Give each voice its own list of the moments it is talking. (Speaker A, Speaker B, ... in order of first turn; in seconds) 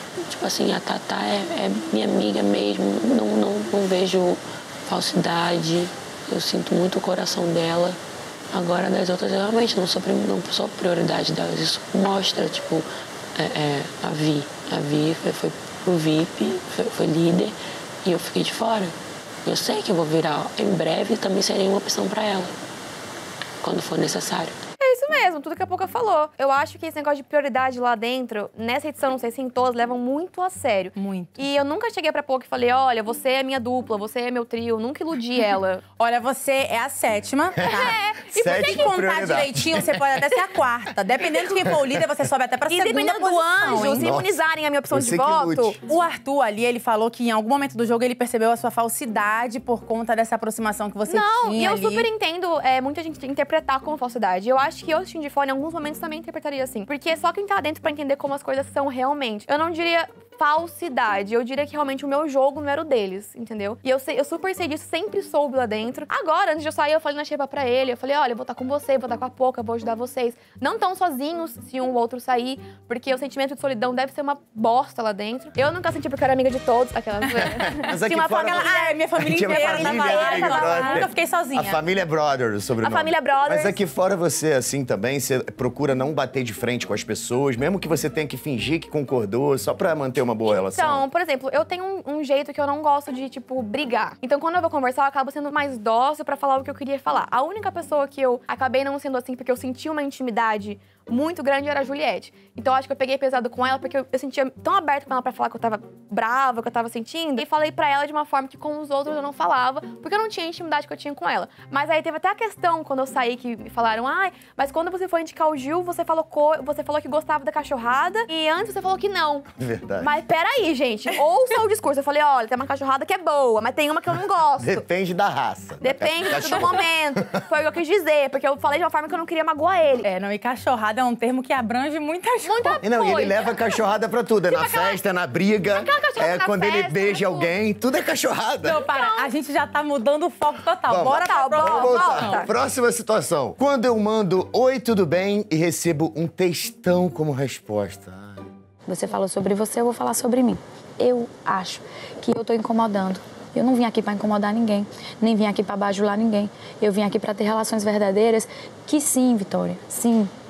Speaker A: 0.2-8.0, 8.5-22.5, 23.6-24.6
Speaker B: 24.8-35.8, 37.7-39.0, 42.7-45.8, 51.1-81.1, 82.8-83.8, 90.5-119.5, 120.0-124.8, 125.8-130.1, 132.5-133.7, 134.5-135.0, 135.7-137.6, 138.8-139.3, 141.2-142.5
Speaker C: 31.0-31.4, 36.0-37.9, 38.6-44.1, 45.9-52.1, 77.3-81.8, 130.0-132.8, 138.6-142.4
Speaker D: 38.3-40.1, 43.9-45.8, 77.8-91.0, 119.6-120.1, 124.6-127.2, 132.8-138.8, 140.9-148.4
Speaker E: 148.9-160.3